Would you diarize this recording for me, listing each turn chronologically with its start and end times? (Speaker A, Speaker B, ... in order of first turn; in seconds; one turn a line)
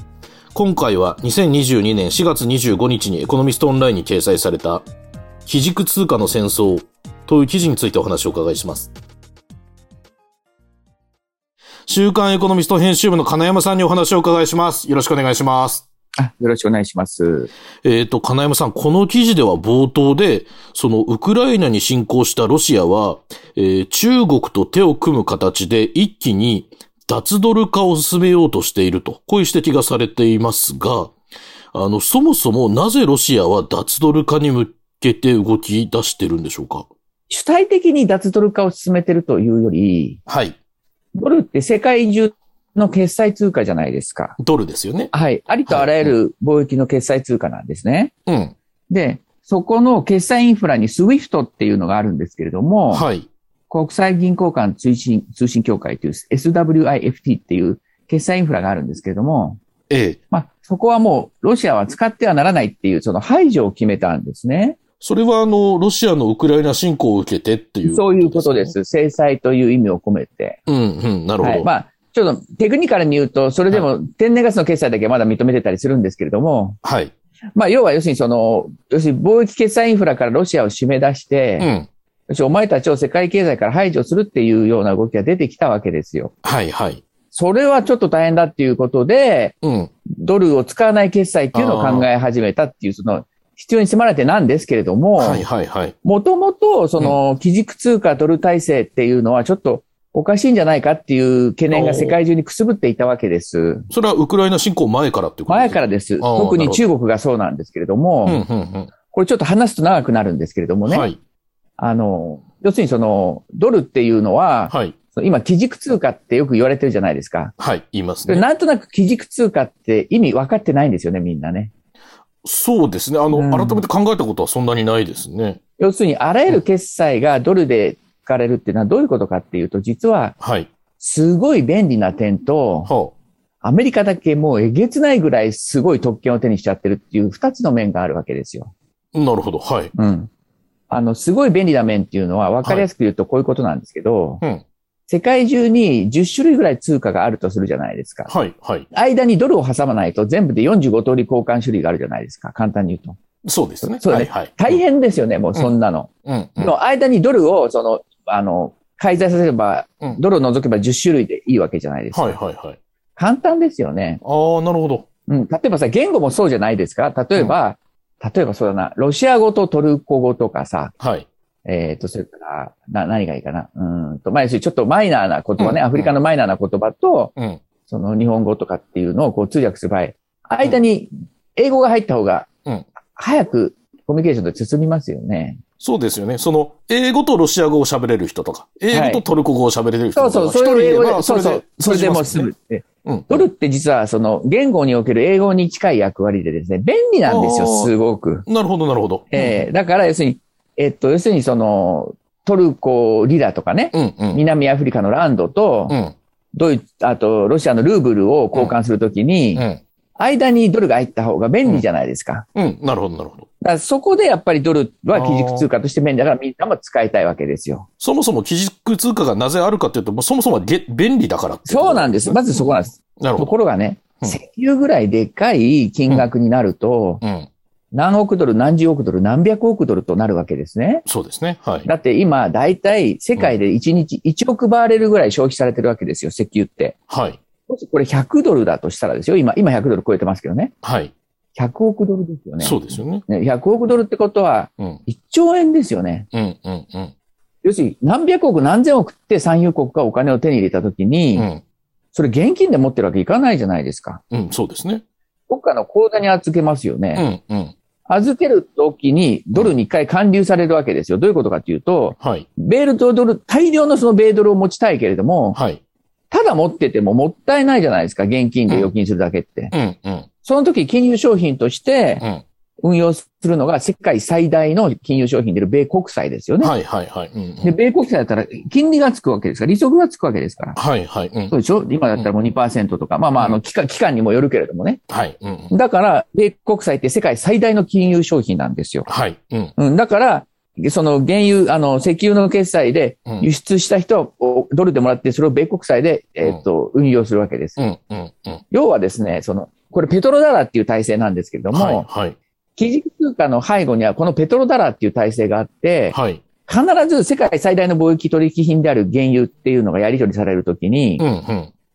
Speaker A: 0.5-4.8
Speaker A: 5.5-8.9
Speaker A: 11.9-15.8
Speaker B: 16.2-17.5
Speaker A: 17.8-31.1
Speaker A: 31.7-36.9
Speaker B: 37.3-40.2
Speaker A: 40.3-40.6
Speaker B: 41.1-44.4
Speaker A: 44.4-45.1
Speaker B: 45.1-48.1
Speaker A: 45.7-46.1
Speaker A: 48.3-48.5
Speaker B: 48.9-53.0
Speaker A: 52.9-53.3
Speaker B: 53.7-59.6
Speaker A: 59.9-60.2
Speaker B: 60.3-64.8
Speaker A: 65.0-68.7
Speaker B: 67.8-70.6
Speaker A: 70.7-71.7
Speaker B: 71.4-76.8
Speaker A: 76.8-77.1
Speaker B: 77.5-81.7
Speaker A: 81.6-81.9
Speaker B: 82.3-86.3
Speaker A: 86.4-87.0
Speaker B: 87.3-89.5
Speaker A: 89.6-89.9
Speaker B: 90.1-95.4
Speaker A: 91.5-92.1
Speaker A: 95.2-95.9
Speaker B: 96.0-103.9
Speaker A: 101.7-102.2
Speaker A: 103.9-106.8
Speaker B: 105.5-108.4
Speaker A: 108.2-108.9
Speaker B: 109.1-111.1
Speaker A: 110.8-111.2
Speaker B: 111.8-117.5
Speaker A: 114.7-114.9
Speaker A: 117.6-118.5
Speaker B: 118.3-121.7
Speaker A: 122.4-125.6
Speaker B: 123.3-123.8
Speaker B: 125.8-130.3
Speaker A: 130.4-130.7
Speaker B: 131.0-132.9
Speaker A: 132.9-133.1
Speaker B: 133.6-138.7
Speaker A: 139.1-139.9
Speaker B: 139.9-140.3
Speaker B: 140.9-144.4
Speaker B: 145.1-148.3
Speaker A: 148.3-148.9
Speaker B: 148.9-153.2
Speaker A: 153.4-154.8
Speaker B: 153.8-162.4
Speaker A: 156.2-156.7
Speaker A: 162.1-162.8
Speaker B: 163.2-164.2
Speaker A: 164.2-165.1
Speaker B: 165.3-170.9
Speaker A: 171.0-171.3
Speaker B: 171.6-177.3
Speaker A: 175.6-176.1
Speaker B: 177.9-182.5
Speaker B: 183.2-185.6
Speaker A: 185.8-192.5
Speaker B: 188.9-189.2
Speaker B: 190.1-198.4
Speaker A: 193.0-193.5
Speaker A: 197.2-197.9
Speaker A: 198.4-199.7
Speaker B: 199.3-205.9
Speaker A: 203.9-204.4
Speaker A: 205.9-206.1
Speaker B: 206.5-209.6
Speaker A: 209.6-209.8
Speaker B: 210.2-212.4
Speaker A: 212.5-213.5
Speaker B: 213.6-217.9
Speaker A: 215.1-215.7
Speaker A: 218.0-223.5
Speaker B: 221.7-227.2
Speaker A: 227.2-227.5
Speaker B: 227.9-231.1
Speaker A: 231.1-231.9
Speaker B: 231.8-237.0
Speaker A: 237.1-237.4
Speaker B: 237.7-240.7
Speaker A: 240.8-241.1
Speaker B: 241.5-246.3
Speaker A: 242.6-243.2
Speaker A: 246.3-247.1
Speaker B: 247.6-251.5
Speaker A: 251.3-251.6
Speaker B: 252.1-254.2
Speaker A: 254.3-255.0
Speaker B: 255.5-257.2
Speaker A: 257.1-257.7
Speaker B: 258.1-265.6
Speaker A: 262.2-262.5
Speaker A: 265.5-265.8
Speaker B: 266.3-269.7
Speaker A: 269.7-270.3
Speaker B: 270.4-272.2
Speaker B: 272.8-276.7
Speaker A: 276.6-277.8
Speaker B: 277.6-280.8
Speaker A: 280.7-281.6
Speaker B: 281.5-285.0
Speaker A: 285.1-285.7
Speaker B: 285.7-289.1
Speaker A: 289.1-289.7
Speaker B: 289.8-297.8
Speaker A: 297.8-298.6
Speaker B: 298.7-302.1
Speaker A: 301.7-302.4
Speaker B: 302.8-311.2
Speaker A: 306.1-306.4
Speaker A: 311.2-311.7